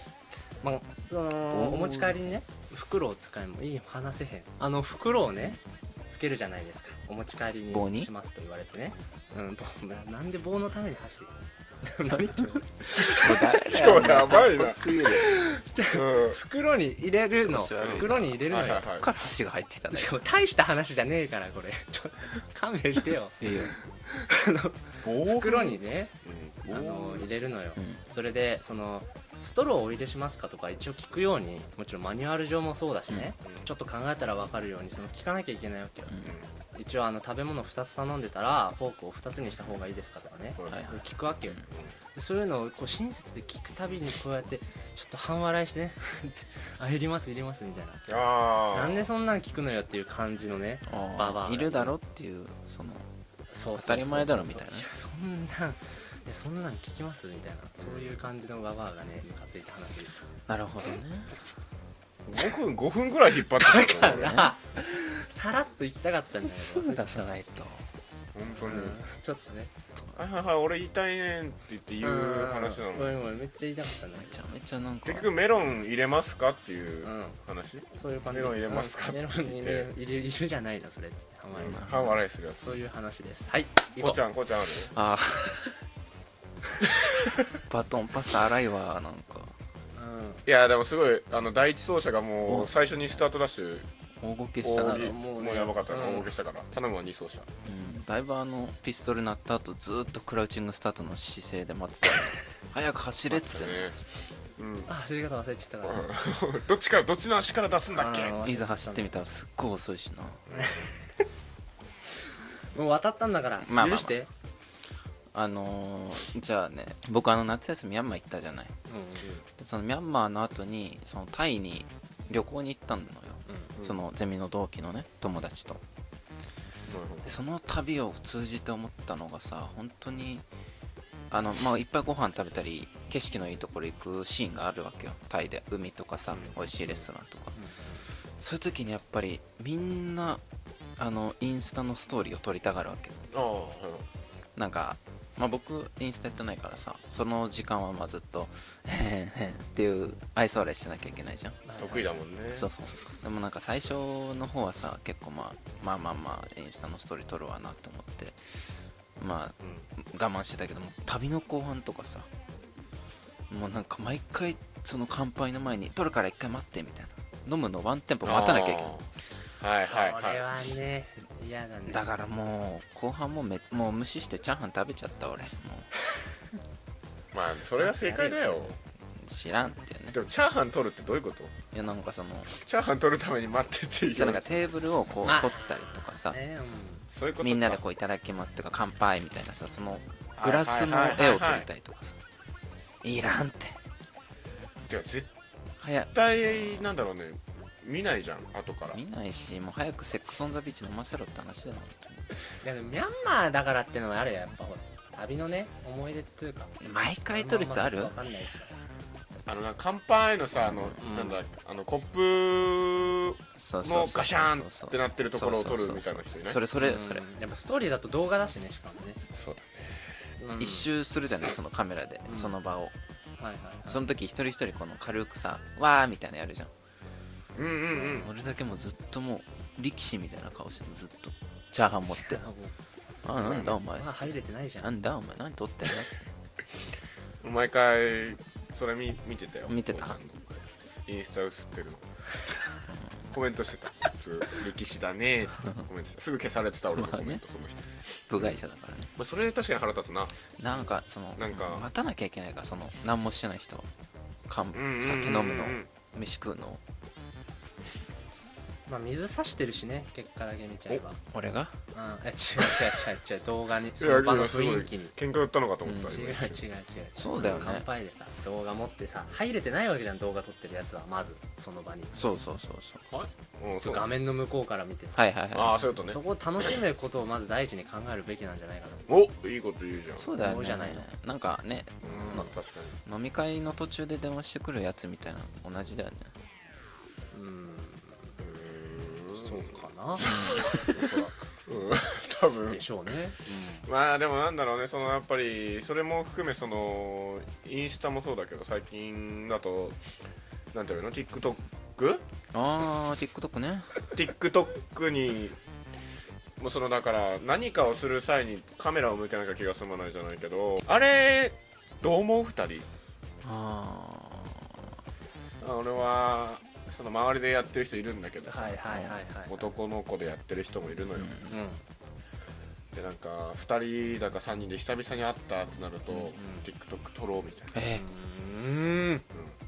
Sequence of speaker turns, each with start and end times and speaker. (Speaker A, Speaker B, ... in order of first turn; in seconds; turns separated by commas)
Speaker A: 0.6-14.1, Speaker B: 1.5-2.4, Speaker B: 7.7-8.1, Speaker B: 13.1-15.4, Speaker C: 13.6-14.9, Speaker A: 15.0-18.9, Speaker C: 15.9-16.4, Speaker B: 17.4-20.1, Speaker C: 17.8-19.1, Speaker A: 19.9-23.5, Speaker B: 23.4-23.7, Speaker A: 24.1-26.1, Speaker C: 25.0-27.3, Speaker A: 26.7-36.1, Speaker B: 27.8-28.0, Speaker B: 36.1-36.3, Speaker C: 36.2-36.5, Speaker A: 36.7-48.1, Speaker C: 40.5-40.9, Speaker B: 40.7-41.6, Speaker C: 41.7-42.0, Speaker C: 48.1-49.1, Speaker A: 48.7-51.9, Speaker B: 50.9-53.0, Speaker A: 53.5-60.1, Speaker B: 53.8-54.9, Speaker C: 57.8-58.2, Speaker B: 60.5-61.3, Speaker C: 62.2-64.4, Speaker A: 63.5-67.3, Speaker B: 64.0-64.5, Speaker B: 66.4-67.9, Speaker C: 68.3-69.0, Speaker A: 68.6-69.7, Speaker C: 70.1-73.2, Speaker A: 72.0-74.4, Speaker B: 74.2-75.3, Speaker C: 75.0-79.9, Speaker A: 77.0-77.4, Speaker A: 77.9-81.9, Speaker C: 81.5-82.8, Speaker B: 81.6-82.2, Speaker A: 82.6-84.2, Speaker C: 84.0-84.9, Speaker B: 84.9-85.7, Speaker B: 87.7-89.5, Speaker A: 89.9-90.4, Speaker C: 90.5-93.9, Speaker B: 92.4-93.2, Speaker B: 94.2-95.1, Speaker C: 94.6-97.5, Speaker A: 94.8-96.3, Speaker B: 97.6-103.9, Speaker C: 103.3-104.0, Speaker C: 104.6-104.9, Speaker A: 104.9-106.0, Speaker C: 105.8-108.4, Speaker A: 107.9-109.1, Speaker B: 108.4-110.4, Speaker C: 110.5-110.9, Speaker A: 110.5-111.0, Speaker A: 112.7-114.3, Speaker B: 113.6-114.2, Speaker B: 115.3-118.7, Speaker A: 118.9-119.2, Speaker B: 119.6-125.8, Speaker A: 123.5-123.7, Speaker C: 123.8-124.0, Speaker C: 126.9-127.3, Speaker B: 127.2-130.4, Speaker B: 131.3-137.6, Speaker C: 136.3-137.0, Speaker A: 137.5-138.0, Speaker B: 138.4-140.4, Speaker B: 141.0-143.3, Speaker C: 143.3-144.1, Speaker B: 144.5-151.6, Speaker A: 151.6-152.2, Speaker C: 151.8-152.7, Speaker B: 152.5-158.4, Speaker B: 159.2-162.3, Speaker C: 159.6-159.9, Speaker B: 163.5-168.9, Speaker C: 168.2-169.1, Speaker C: 169.6-170.4, Speaker A: 169.9-172.1, Speaker B: 171.9-175.9, Speaker C: 177.3-178.8, Speaker A: 177.8-178.7, Speaker B: 179.2-180.2, Speaker C: 180.1-181.5, Speaker B: 181.7-182.5, Speaker C: 182.5-184.7, Speaker B: 184.1-186.4, Speaker A: 185.2-187.1, Speaker C: 187.1-187.8, Speaker B: 187.4-192.2, Speaker C: 190.4-191.7, Speaker B: 193.0-193.8, Speaker C: 194.9-195.3, Speaker B: 195.8-196.9, Speaker C: 196.1-199.0, Speaker B: 198.9-202.3, Speaker A: 202.6-206.8, Speaker B: 206.8-208.1, Speaker A: 207.3-208.8, Speaker C: 209.4-216.6, Speaker B: 210.6-211.0, Speaker A: 211.0-211.4, Speaker B: 213.6-217.2, Speaker A: 216.8-219.2, Speaker C: 219.3-220.1, Speaker A: 220.4-220.9, Speaker B: 220.6-222.9, Speaker A: 222.3-222.5, Speaker A: 223.4-224.0, Speaker B: 223.9-226.7, Speaker C: 227.5-228.3, Speaker B: 228.0-232.4, Speaker A: 232.2-232.7, Speaker B: 233.2-236.2, Speaker C: 233.4-233.8, Speaker A: 233.6-234.9, Speaker C: 237.4-242.0, Speaker B: 239.7-240.2, Speaker C: 243.3-248.6, Speaker B: 246.9-247.4, Speaker B: 248.3-249.1, Speaker C: 249.2-251.9, Speaker B: 250.6-253.9, Speaker B: 254.5-256.8, Speaker C: 254.7-255.9, Speaker A: 258.9-261.2, Speaker B: 261.3-261.7, Speaker A: 261.9-265.1, Speaker C: 264.0-266.6, Speaker B: 265.8-266.2, Speaker A: 266.0-272.3, Speaker B: 267.1-267.9, Speaker C: 267.3-267.7, Speaker B: 272.1-273.1, Speaker C: 273.1-274.1, Speaker A: 273.8-275.3, Speaker B: 275.1-275.9, Speaker C: 275.5-276.7, Speaker A: 276.1-279.0, Speaker C: 279.1-280.3, Speaker B: 280.1-282.5, Speaker A: 280.4-281.1, Speaker C: 282.0-283.0, Speaker B: 283.1-286.3, Speaker A: 287.3-288.3, Speaker C: 288.4-292.8, Speaker A: 289.3-290.3, Speaker B: 290.2-290.8, Speaker A: 292.6-293.8, Speaker C: 293.4-300.0, Speaker C: 300.7-302.2, Speaker B: 302.5-303.9, Speaker C: 304.1-305.6, Speaker C: 306.6-312.9, Speaker B: 313.4-314.8, Speaker C: 315.6-318.8, Speaker A: 318.4-319.7, Speaker B: 318.9-319.2, Speaker C: 319.5-321.3, Speaker B: 321.1-321.6, Speaker A: 321.5-321.8, Speaker C: 322.9-327.9, Speaker A: 326.3-326.7, Speaker B: 327.7-328.0, Speaker A: 327.9-329.2